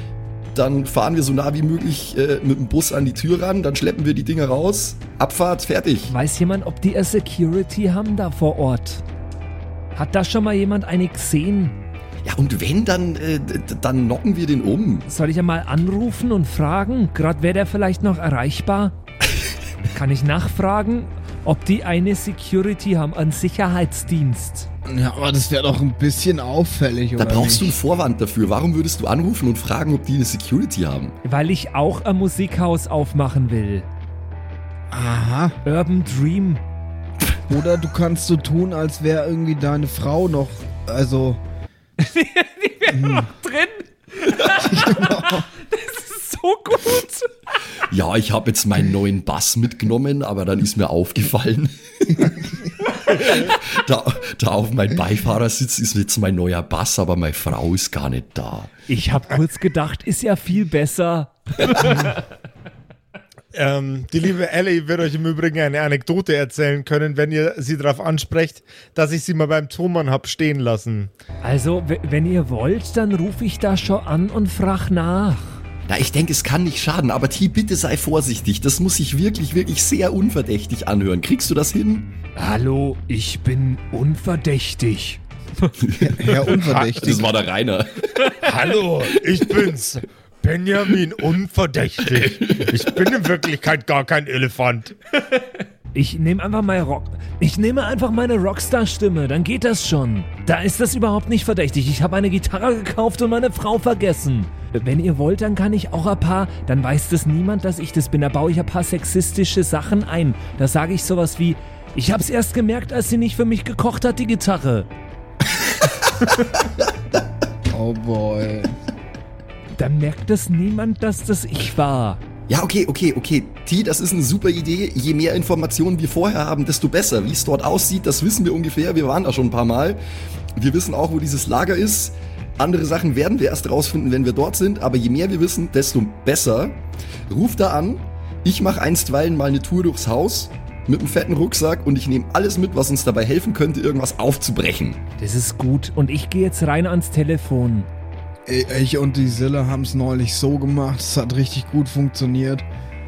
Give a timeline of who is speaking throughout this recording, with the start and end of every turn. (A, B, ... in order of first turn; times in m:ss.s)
0:00.5-0:06.1 A
0:06.1-0:09.0 B
0:09.9-0:11.8 B
0:12.2-0:15.0 A
0:15.1-0:19.0 B
0:19.9-0:24.7 B
0:24.9-0:27.8 C
0:27.2-0:31.2 A
0:31.2-0:33.9 B
0:34.9-0:35.6 C
0:35.6-0:36.6 B
0:37.5-0:41.4 C
0:42.0-0:47.3 B
0:42.9-0:43.3 C
0:44.6-0:45.5 C
0:47.8-0:58.7 A
0:58.9-1:02.2 B
1:03.5-1:11.1 D
1:11.4-1:15.6 B
1:15.9-1:22.1 A
1:22.4-1:25.7 B
1:25.8-1:29.7 A
1:26.0-1:27.3 C
1:26.6-1:27.0 D
1:28.4-1:34.9 D
1:32.1-1:32.8 A
1:35.2-1:54.9 B
1:57.6-1:58.8 C
1:59.8-2:02.2 B
2:02.5-2:10.0 A
2:10.6-2:25.0 A
2:25.2-2:27.9 B
2:28.5-2:32.6 C